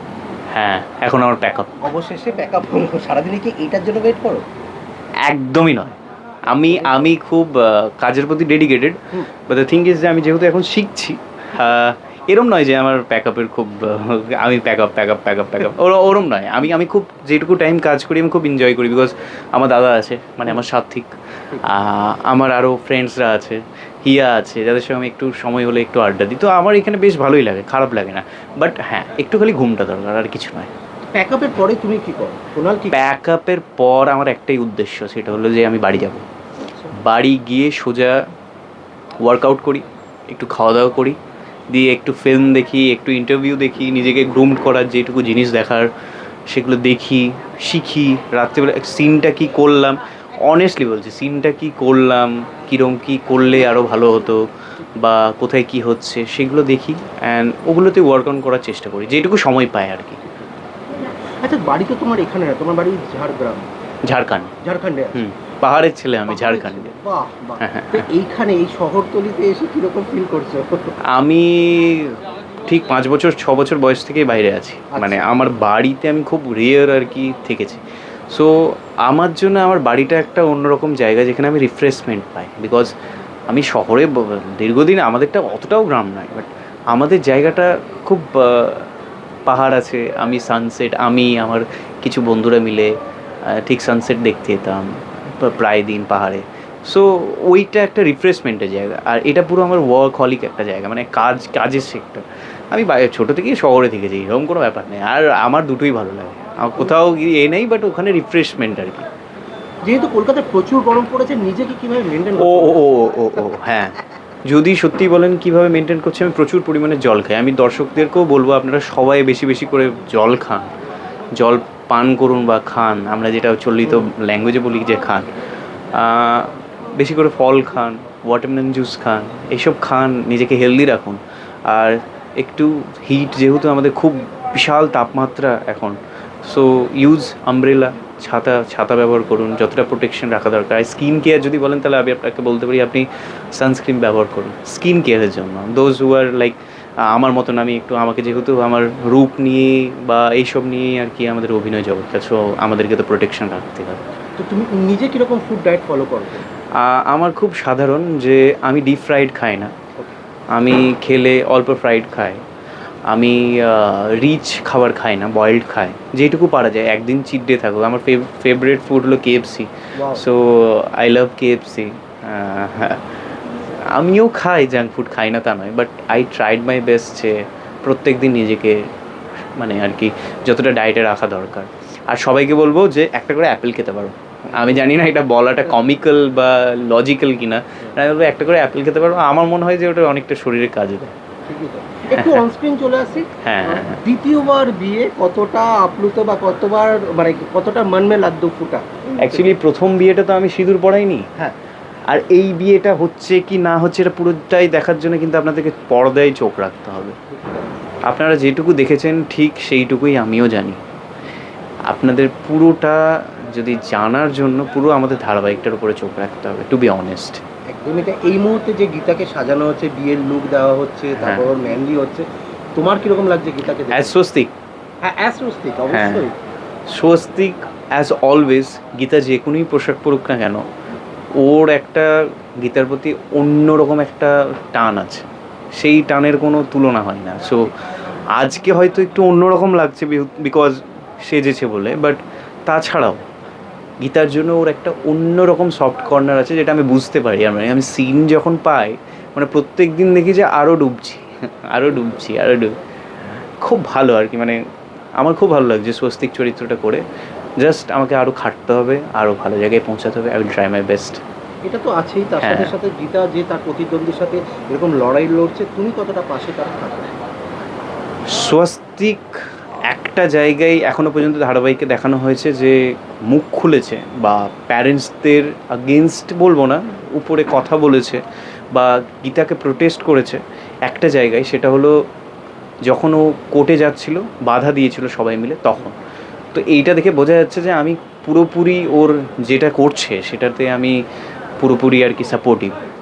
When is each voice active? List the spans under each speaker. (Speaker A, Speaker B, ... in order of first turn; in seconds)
Speaker A: 0.5-1.7, 5.2-6.0, 6.5-30.7, 32.9-36.2, 37.0-38.2, 39.2-41.2, 41.7-45.9, 46.5-60.2, 64.0-64.5, 65.1-66.9, 67.6-68.1, 71.1-82.9, 83.5-88.9, 89.5-92.9, 93.5-109.1, 112.4-120.7, 121.3-125.3, 125.9-154.0, 156.8-159.7, 160.5-162.4, 163.1-173.1, 173.9-178.8, 179.6-191.1, 192.1-192.4, 193.4-194.0, 199.2-201.2, 202.1-207.2, 208.1-210.8, 211.9-213.0, 213.5-217.4, 221.2-221.5, 223.9-224.5, 225.9-226.3, 226.9-230.6, 231.4-237.7, 238.3-243.2, 244.0-252.7, 253.6-254.6, 255.2-257.0, 257.6-261.2, 262.4-262.7, 268.3-269.3, 269.9-278.2, 278.7-281.9, 282.9-285.9, 286.5-291.0, 291.6-292.7
Speaker B: 1.8-4.4, 6.7-7.1, 31.1-33.0, 61.4-63.7, 64.6-65.2, 66.3-70.9, 74.9-75.4, 109.8-112.8, 154.4-156.4, 170.0-170.2, 184.6-184.8, 191.5-199.5, 207.3-207.8, 217.7-224.2, 225.0-226.3, 251.9-252.2, 261.6-267.1